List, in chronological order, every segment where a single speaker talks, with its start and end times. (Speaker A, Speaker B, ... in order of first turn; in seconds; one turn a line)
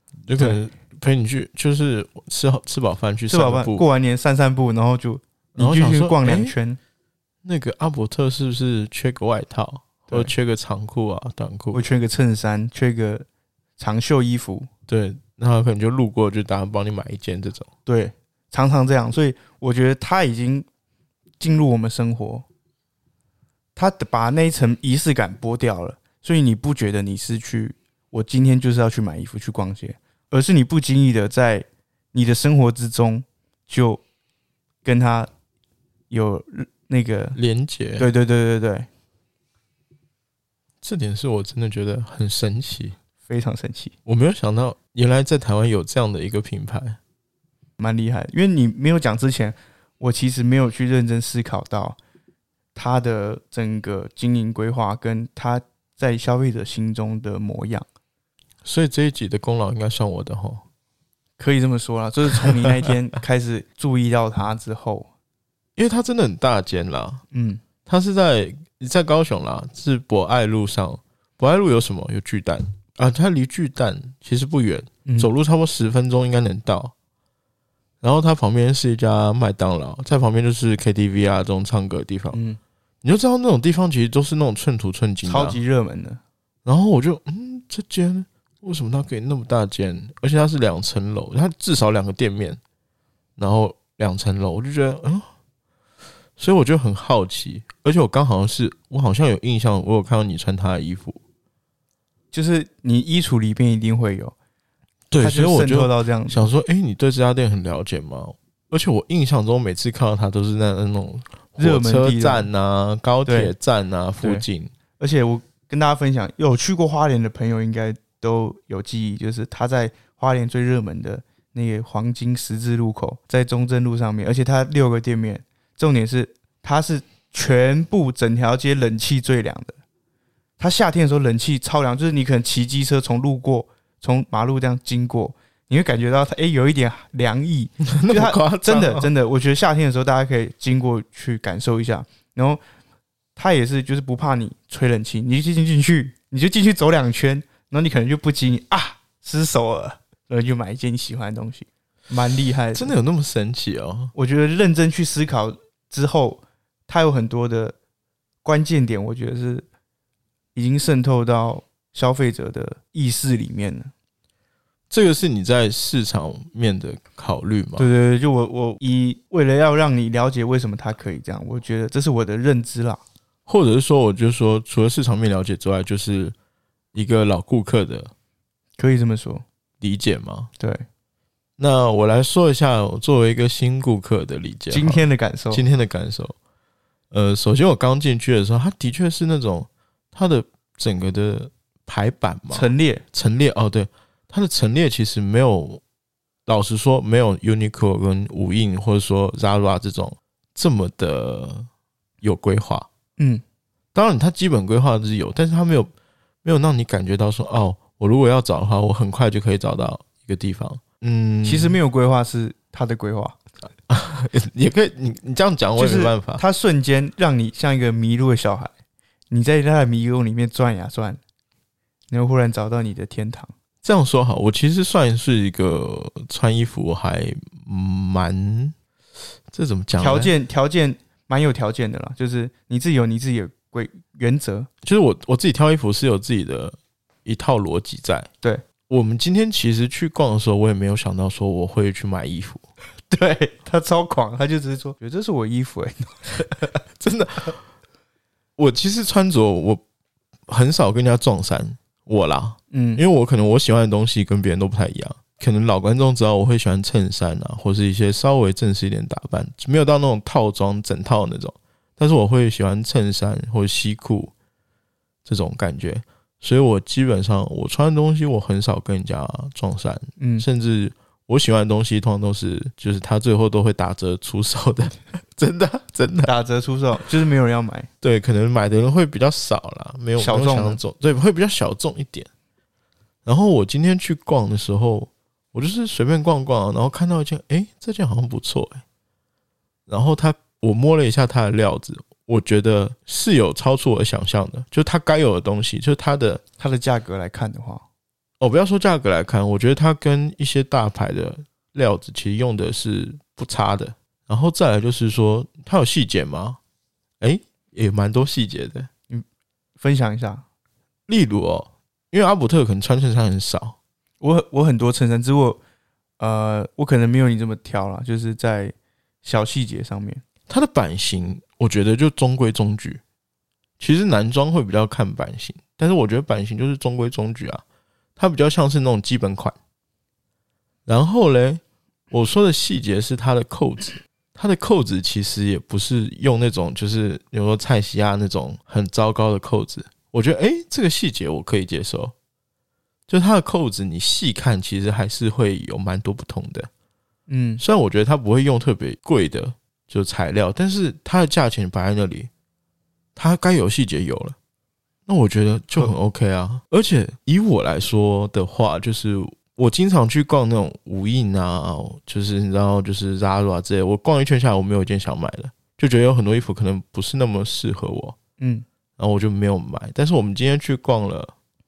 Speaker A: 0.3-3.8
Speaker B: 3.3-6.8
Speaker A: 5.6-6.5
Speaker A: 7.4-11.8
Speaker B: 11.7-13.3
Speaker B: 13.8-14.7
Speaker A: 14.9-17.7
Speaker B: 17.9-20.7
Speaker B: 21.4-22.4
Speaker B: 23.8-34.0
Speaker B: 34.8-35.3
Speaker B: 36.1-37.4
Speaker A: 37.4-38.1
Speaker B: 38.0-38.9
Speaker A: 40.8-43.0
Speaker B: 43.3-43.9
Speaker A: 44.1-47.0
Speaker B: 47.8-52.0
Speaker B: 52.8-57.9
Speaker A: 58.6-60.6
Speaker B: 61.4-65.1
Speaker A: 65.8-67.2
Speaker B: 67.3-67.6
Speaker A: 67.9-76.9
Speaker B: 75.0-75.3
Speaker A: 78.0-82.4
Speaker B: 82.3-82.6
Speaker A: 83.0-85.6
Speaker B: 85.2-86.2
Speaker A: 86.7-92.6
Speaker A: 93.4-95.3
Speaker A: 96.4-101.2
Speaker B: 102.3-104.3
Speaker A: 105.1-114.7
Speaker B: 105.2-106.4
Speaker B: 111.6-112.5
Speaker B: 113.3-113.5
Speaker B: 115.0-129.8
Speaker B: 130.6-142.6
Speaker A: 137.8-139.1
Speaker B: 143.4-152.9
Speaker A: 152.7-154.1
Speaker B: 154.2-157.8
Speaker B: 158.4-159.7
Speaker B: 160.6-163.9
Speaker A: 164.9-167.9
Speaker B: 167.8-173.0
Speaker A: 173.5-176.3
Speaker A: 176.9-178.1
Speaker B: 178.8-179.4
Speaker A: 179.8-180.5
Speaker B: 180.6-180.9
Speaker A: 181.6-186.4
Speaker B: 184.7-185.6
Speaker A: 187.1-195.8
Speaker B: 192.5-193.0
Speaker A: 196.5-201.7
Speaker A: 202.2-202.9
Speaker B: 203.2-203.4
Speaker A: 203.9-205.9
Speaker A: 206.4-211.8
Speaker B: 211.4-213.4
Speaker A: 213.9-216.4
Speaker B: 215.8-218.7
Speaker B: 219.3-221.2
Speaker B: 222.1-223.5
Speaker A: 223.8-228.8
Speaker A: 229.5-230.3
Speaker B: 230.0-234.7
Speaker A: 234.8-238.3
Speaker A: 238.9-242.6
Speaker B: 243.1-246.8
Speaker A: 247.0-247.6
Speaker A: 248.6-249.8
Speaker A: 250.5-264.3
Speaker B: 252.7-253.0
Speaker A: 265.2-276.3
Speaker B: 270.2-270.5
Speaker B: 276.2-277.9
Speaker A: 278.0-282.3
Speaker B: 280.2-280.8
Speaker A: 283.2-288.8
Speaker A: 289.9-296.4
Speaker B: 296.6-297.8
Speaker A: 298.4-306.6
Speaker A: 307.2-308.9
Speaker B: 309.8-310.4
Speaker A: 311.1-313.8
Speaker B: 314.2-315.6
Speaker B: 316.2-320.2
Speaker A: 320.5-323.0
Speaker A: 323.8-327.6
Speaker A: 328.2-329.6
Speaker A: 330.9-342.1
Speaker A: 343.1-346.7
Speaker B: 347.3-347.6
Speaker A: 347.6-352.3
Speaker A: 353.2-354.4
Speaker A: 355.1-368.2
Speaker B: 368.4-368.6
Speaker A: 369.0-371.3